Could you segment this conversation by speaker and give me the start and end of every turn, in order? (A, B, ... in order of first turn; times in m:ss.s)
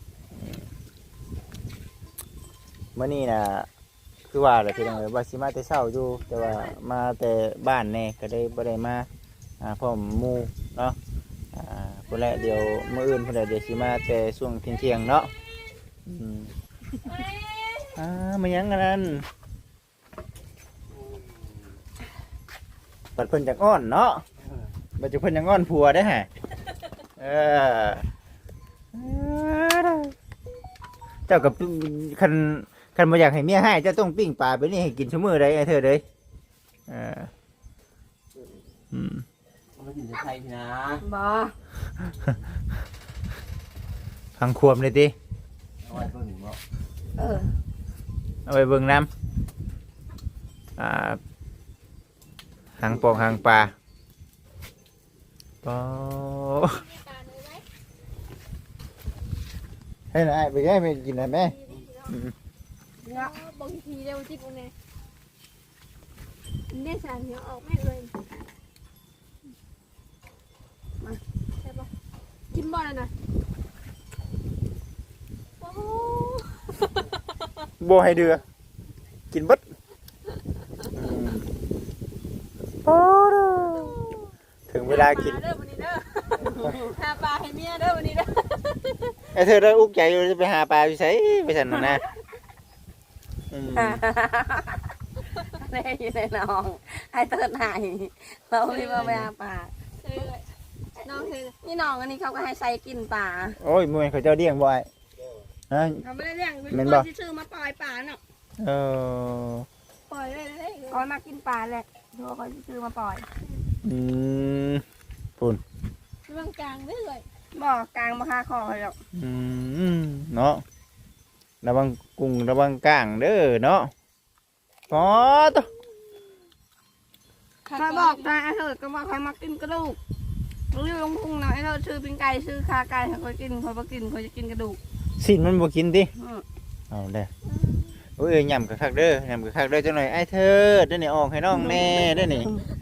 0:03.0-0:03.7 A
0:04.3-0:09.1 A
0:09.6-0:11.0 A
0:11.5-0:15.3 A
0:16.1-0:16.5 A
0:17.0-0:18.0 B
0:18.0-0:19.3 A
0:23.2-0:24.2 A
0:25.0-0:26.3 A
0:27.2-0:28.1 A
0:28.9-0:30.1 A
0:31.3-0:36.0 A
0:36.9-0:37.3 A
0:38.9-0:39.2 A
0:39.8-0:41.0 C
0:41.0-0:41.5 B
0:44.4-0:45.2 A
0:45.9-0:46.6 C
0:47.2-0:47.5 B
0:48.5-0:49.1 A
0:50.8-0:51.2 A
0:52.8-0:53.7 A
0:55.6-0:56.9 A
0:56.8-0:57.6 D
1:00.1-1:01.6 A
1:01.4-1:02.1 D
1:02.1-1:02.3 A
1:03.0-1:03.3 B
1:03.1-1:04.7 D
1:06.7-1:08.1 D
1:11.6-1:11.9 D
1:12.5-1:13.1 D
1:15.6-1:17.2 D
1:17.8-1:18.4 A
1:19.3-1:19.6 A
1:20.9-1:21.5 A
1:22.8-1:24.2 A
1:24.7-1:25.4 A
1:24.8-1:29.2 D
1:26.5-1:26.8 B
1:29.4-1:32.0 A
1:33.5-1:34.0 A
1:33.8-1:34.9 B
1:35.5-1:40.2 B
1:38.6-1:39.2 D
1:39.0-1:39.3 A
1:40.0-1:40.4 D
1:41.0-1:41.6 D
1:41.6-1:43.6 B
1:43.6-1:44.9 A
1:45.7-1:46.0 A
1:46.0-1:48.2 B
1:46.7-1:47.1 A
1:48.6-1:49.7 A
1:50.1-1:51.0 D
1:50.9-1:53.3 B
1:53.8-1:54.8 A
1:56.3-1:57.3 D
1:57.6-1:59.0 B
1:59.2-2:00.6 A
2:01.6-2:03.9 A
2:04.9-2:05.7 A
2:07.7-2:08.3 D
2:07.7-2:10.0 B
2:10.7-2:14.8 B
2:15.2-2:16.1 A
2:16.2-2:16.4 B
2:16.9-2:17.3 A
2:17.5-2:17.9 D
2:18.2-2:22.5 A
2:21.5-2:22.6 B